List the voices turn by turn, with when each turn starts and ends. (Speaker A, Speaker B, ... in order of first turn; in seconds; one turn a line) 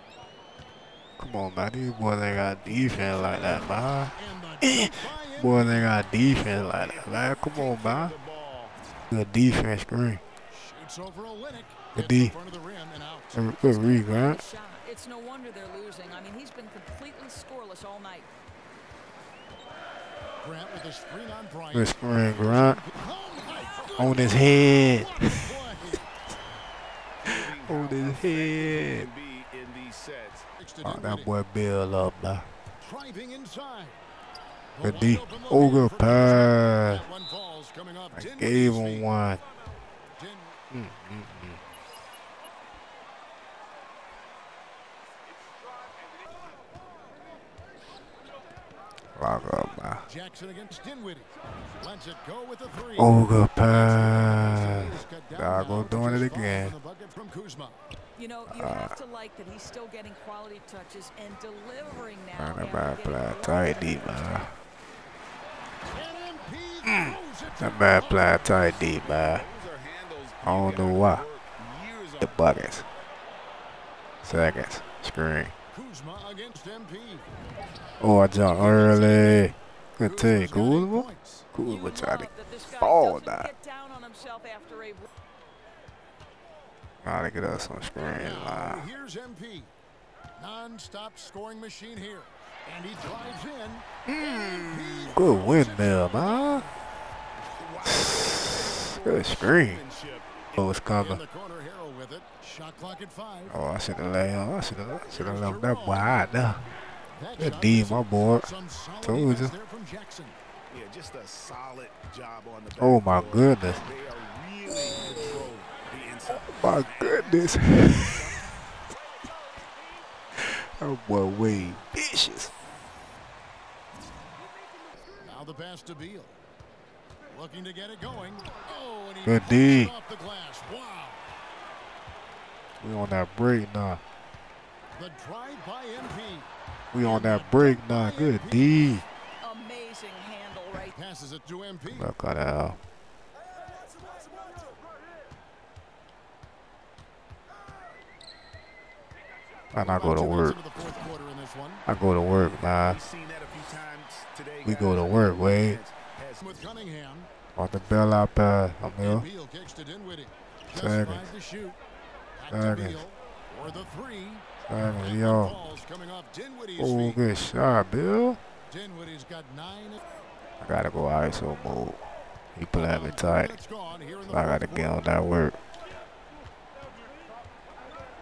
Speaker A: 1.2-8.1
Speaker B: 2.7-6.0
Speaker C: 6.3-8.7
Speaker A: 9.1-10.2
Speaker B: 10.5-13.6
Speaker A: 11.9-12.3
Speaker A: 13.3-14.4
Speaker D: 13.8-18.3
Speaker B: 20.4-26.0
Speaker A: 21.7-22.8
Speaker A: 24.0-25.6
Speaker C: 27.2-30.5
Speaker A: 27.7-29.1
Speaker B: 30.6-31.3
Speaker A: 30.8-32.5
Speaker B: 32.8-34.0
Speaker B: 34.8-39.1
Speaker A: 34.8-37.1
Speaker A: 38.1-39.4
Speaker B: 40.2-40.6
Speaker A: 40.7-41.6
Speaker A: 49.2-50.1
Speaker B: 50.1-57.8
Speaker A: 53.0-56.8
Speaker D: 58.2-64.2
Speaker A: 58.5-59.0
Speaker A: 62.3-64.5
Speaker B: 65.9-68.5
Speaker A: 66.8-69.5
Speaker C: 68.8-72.7
Speaker A: 70.4-71.2
Speaker A: 72.2-72.9
Speaker A: 74.2-75.5
Speaker B: 75.7-77.3
Speaker A: 78.0-83.5
Speaker B: 78.5-79.5
Speaker B: 80.1-81.5
Speaker D: 81.6-85.1
Speaker A: 87.0-88.9
Speaker B: 88.1-89.7
Speaker B: 90.4-96.7
Speaker A: 94.1-96.7
Speaker C: 97.4-100.7
Speaker A: 97.8-99.8
Speaker A: 100.6-101.2
Speaker B: 101.0-103.5
Speaker A: 103.5-106.7
Speaker B: 105.1-106.2
Speaker B: 107.1-110.4
Speaker A: 107.4-108.5
Speaker A: 109.0-109.5
Speaker C: 110.7-118.6
Speaker A: 112.8-113.8
Speaker A: 116.3-118.4
Speaker A: 120.3-122.5
Speaker B: 125.2-126.4
Speaker B: 127.3-131.2
Speaker A: 129.2-129.9
Speaker A: 132.8-134.0
Speaker B: 134.9-136.5
Speaker A: 136.9-139.1
Speaker B: 137.0-139.0
Speaker D: 139.4-141.0
Speaker B: 140.9-142.1
Speaker A: 141.9-142.8
Speaker A: 149.7-150.6
Speaker B: 149.8-151.8
Speaker A: 151.9-153.0
Speaker C: 152.8-156.6
Speaker A: 154.7-155.8
Speaker B: 156.4-157.3
Speaker A: 157.6-159.3
Speaker B: 159.0-161.8
Speaker A: 160.7-161.3
Speaker B: 162.4-164.5
Speaker A: 162.5-163.0
Speaker A: 164.7-165.6
Speaker B: 165.0-167.2
Speaker A: 166.8-168.4
Speaker B: 168.7-170.0
Speaker A: 170.6-172.0
Speaker A: 172.6-173.6
Speaker B: 172.8-175.0
Speaker A: 174.3-175.6